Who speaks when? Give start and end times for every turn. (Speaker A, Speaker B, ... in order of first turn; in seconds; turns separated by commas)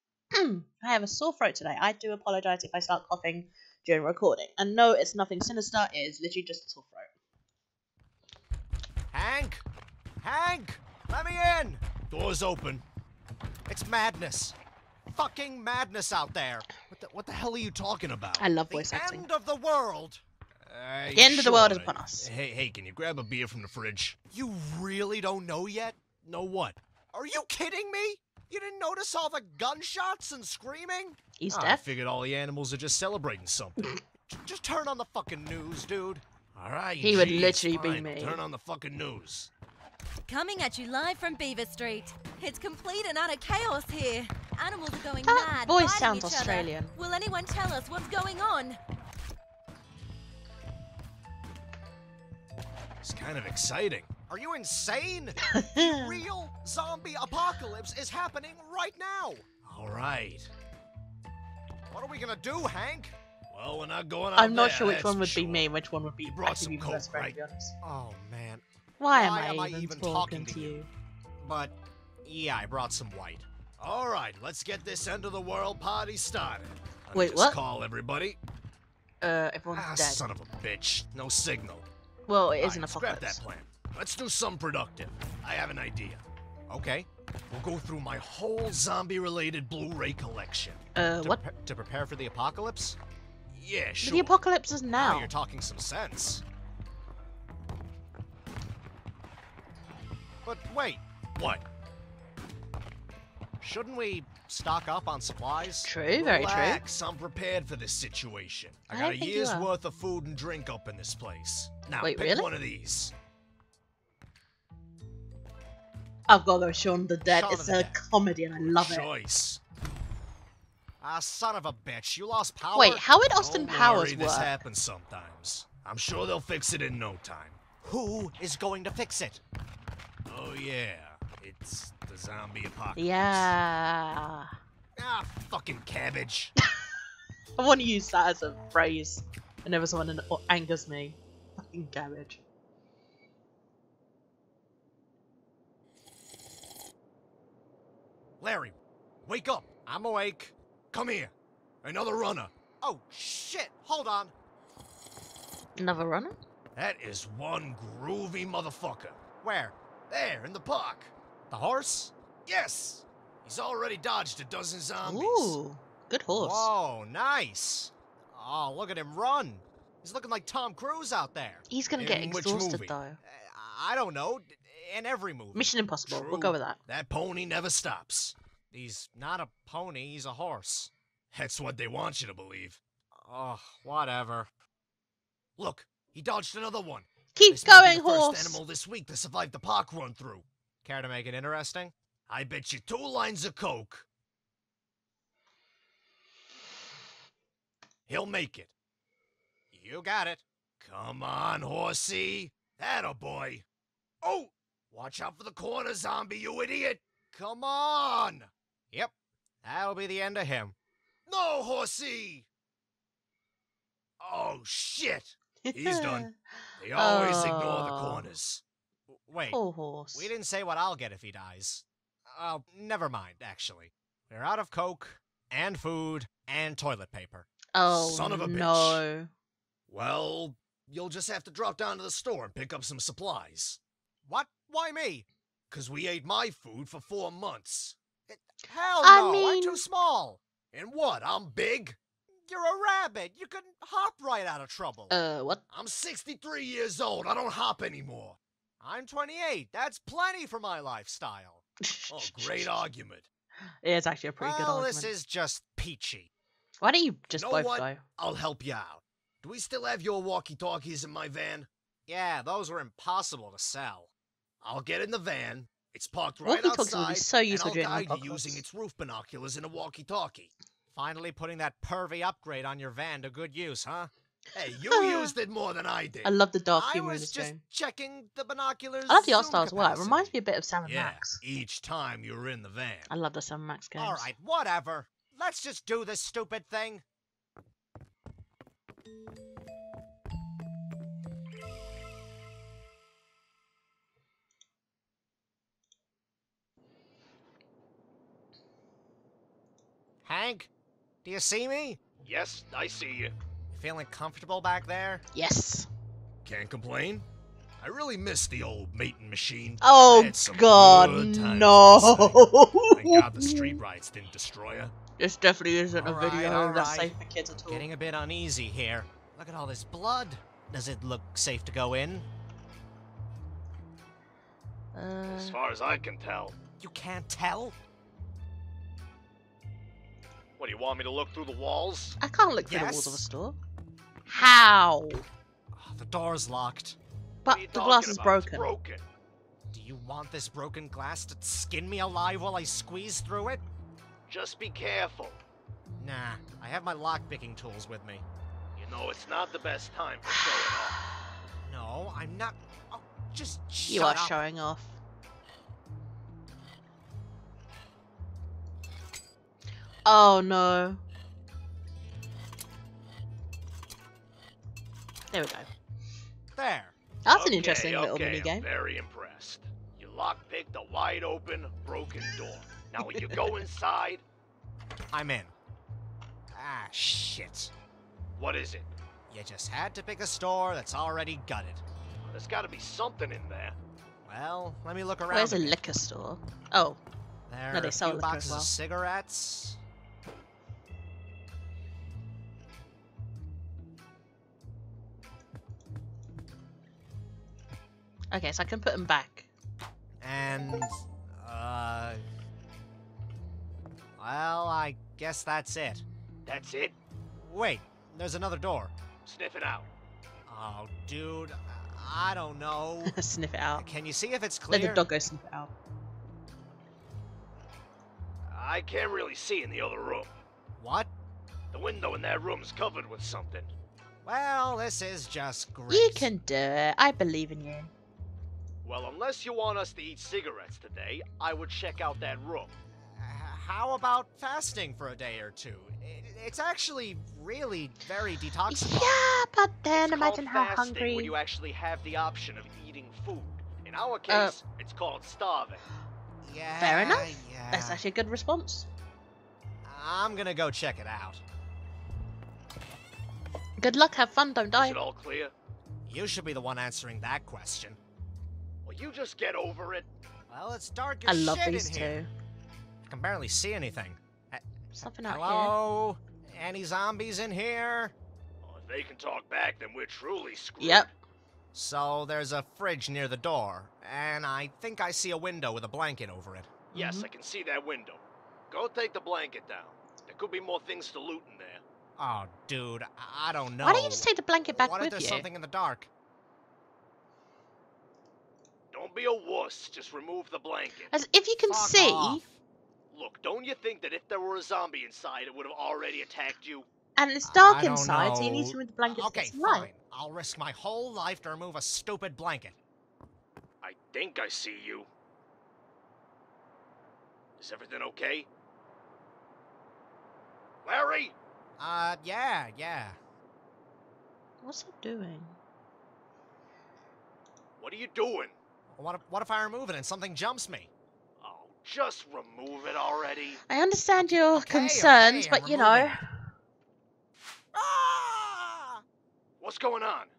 Speaker A: 0.3-7.1, Speaker B: 9.1-9.6, Speaker B: 10.2-12.8, Speaker B: 13.7-14.6, Speaker B: 15.1-39.5, Speaker A: 18.4-19.3, Speaker A: 21.1-22.3, Speaker A: 31.4-31.8, Speaker A: 37.0-38.4, Speaker C: 37.2-37.5, Speaker D: 40.3-48.8, Speaker A: 45.2-46.9, Speaker B: 53.0-60.5, Speaker A: 55.5-56.2, Speaker B: 61.9-65.6, Speaker A: 64.4-67.8, Speaker B: 66.2-70.8, Speaker A: 69.0-70.9, Speaker B: 71.4-78.4, Speaker A: 77.1-77.6, Speaker A: 79.2-80.2, Speaker B: 79.7-81.9, Speaker A: 82.3-83.4, Speaker B: 82.6-93.0, Speaker A: 91.0-91.4, Speaker B: 93.5-94.4, Speaker A: 94.0-95.3, Speaker B: 95.0-96.4, Speaker B: 100.5-101.6, Speaker B: 103.6-113.1, Speaker A: 105.8-106.8, Speaker A: 108.9-109.7, Speaker A: 112.0-112.5, Speaker A: 116.3-119.1, Speaker B: 117.3-118.0, Speaker B: 118.6-119.6, Speaker B: 121.0-129.4, Speaker A: 122.8-124.5, Speaker B: 130.3-133.5, Speaker A: 132.9-134.5, Speaker B: 135.0-136.5, Speaker A: 137.6-142.4, Speaker B: 148.4-154.3, Speaker A: 155.8-156.3, Speaker B: 156.8-165.6, Speaker A: 165.0-166.7, Speaker B: 166.4-184.5, Speaker A: 171.7-173.2, Speaker A: 175.6-176.8, Speaker B: 185.6-194.1, Speaker A: 187.3-188.6, Speaker B: 198.1-198.7, Speaker B: 199.7-203.7, Speaker B: 204.2-209.1, Speaker B: 209.6-210.8, Speaker B: 211.3-212.5, Speaker B: 214.2-216.3, Speaker A: 215.7-216.3, Speaker B: 216.8-219.6, Speaker A: 216.9-218.3, Speaker A: 219.5-220.3, Speaker B: 220.1-229.0, Speaker A: 227.8-229.3, Speaker B: 229.9-245.2, Speaker A: 239.0-239.8, Speaker A: 245.1-245.6, Speaker B: 245.7-253.3, Speaker A: 251.9-252.8, Speaker A: 253.8-255.1, Speaker B: 254.4-256.3, Speaker A: 256.8-258.0, Speaker B: 257.4-264.1, Speaker B: 264.6-280.3, Speaker A: 266.4-268.6, Speaker A: 274.8-275.4, Speaker A: 276.2-277.6, Speaker A: 279.1-281.4, Speaker B: 280.9-283.1, Speaker A: 283.1-284.3, Speaker B: 284.0-287.0, Speaker B: 300.2-300.7, Speaker B: 301.2-305.2, Speaker C: 302.3-303.3, Speaker A: 305.3-305.9, Speaker B: 306.4-307.2, Speaker B: 307.8-312.4, Speaker A: 309.8-313.8, Speaker C: 310.4-311.1, Speaker B: 312.9-314.9, Speaker A: 315.2-317.9, Speaker B: 316.0-322.3, Speaker A: 324.9-325.6, Speaker C: 325.3-326.6, Speaker B: 326.8-327.8, Speaker C: 330.6-332.1, Speaker A: 332.2-333.6, Speaker B: 332.7-333.3, Speaker A: 334.3-335.2, Speaker B: 335.7-337.0, Speaker A: 337.4-338.7, Speaker C: 337.5-339.0, Speaker B: 339.7-343.6, Speaker C: 344.3-345.4, Speaker B: 346.0-348.2, Speaker C: 348.8-350.9, Speaker B: 351.6-354.4, Speaker A: 353.9-355.0, Speaker A: 360.1-361.0, Speaker A: 365.3-365.7, Speaker B: 366.6-366.9, Speaker A: 367.3-368.6, Speaker C: 367.3-374.2, Speaker B: 375.1-375.5, Speaker B: 376.5-377.7, Speaker C: 378.4-378.9, Speaker B: 379.3-381.8, Speaker C: 382.3-383.8, Speaker B: 384.3-385.8, Speaker A: 385.3-387.0, Speaker B: 387.5-389.8, Speaker A: 387.7-388.7, Speaker A: 398.3-399.5, Speaker B: 400.2-402.2, Speaker B: 404.2-406.0, Speaker C: 406.5-406.9, Speaker B: 407.3-408.9, Speaker C: 409.3-409.9, Speaker B: 410.5-413.1, Speaker A: 413.1-413.9, Speaker B: 413.7-415.1, Speaker A: 414.7-415.7, Speaker C: 418.5-420.3, Speaker B: 420.8-421.1, Speaker C: 421.7-423.7, Speaker B: 424.2-426.3, Speaker A: 425.9-427.9, Speaker C: 428.9-432.7, Speaker B: 431.3-439.2, Speaker A: 438.7-441.3, Speaker B: 440.0-445.8, Speaker A: 444.3-444.6, Speaker B: 446.4-448.0, Speaker A: 446.8-448.9, Speaker B: 449.9-451.4, Speaker A: 453.8-455.0, Speaker C: 454.8-455.5, Speaker B: 454.8-455.5, Speaker B: 456.1-458.0, Speaker C: 458.9-460.1, Speaker B: 460.5-462.2, Speaker A: 461.3-462.3, Speaker B: 463.1-464.6, Speaker A: 464.9-465.8, Speaker B: 465.2-468.1, Speaker C: 468.6-471.1, Speaker A: 470.8-471.1, Speaker B: 471.7-477.4, Speaker A: 476.9-477.3, Speaker C: 476.9-481.8, Speaker B: 482.2-486.1, Speaker A: 483.8-485.5, Speaker C: 488.9-491.1, Speaker A: 491.1-492.4, Speaker B: 491.7-492.6, Speaker C: 493.1-496.9, Speaker A: 497.2-499.9, Speaker B: 497.4-502.8, Speaker C: 503.8-505.1, Speaker C: 507.6-508.5, Speaker C: 510.9-511.3, Speaker B: 511.8-513.2, Speaker A: 514.6-515.6, Speaker C: 517.8-518.5, Speaker B: 519.0-520.9, Speaker C: 521.4-523.5, Speaker A: 523.7-526.2, Speaker B: 524.5-526.2, Speaker B: 527.8-529.0, Speaker C: 529.6-530.3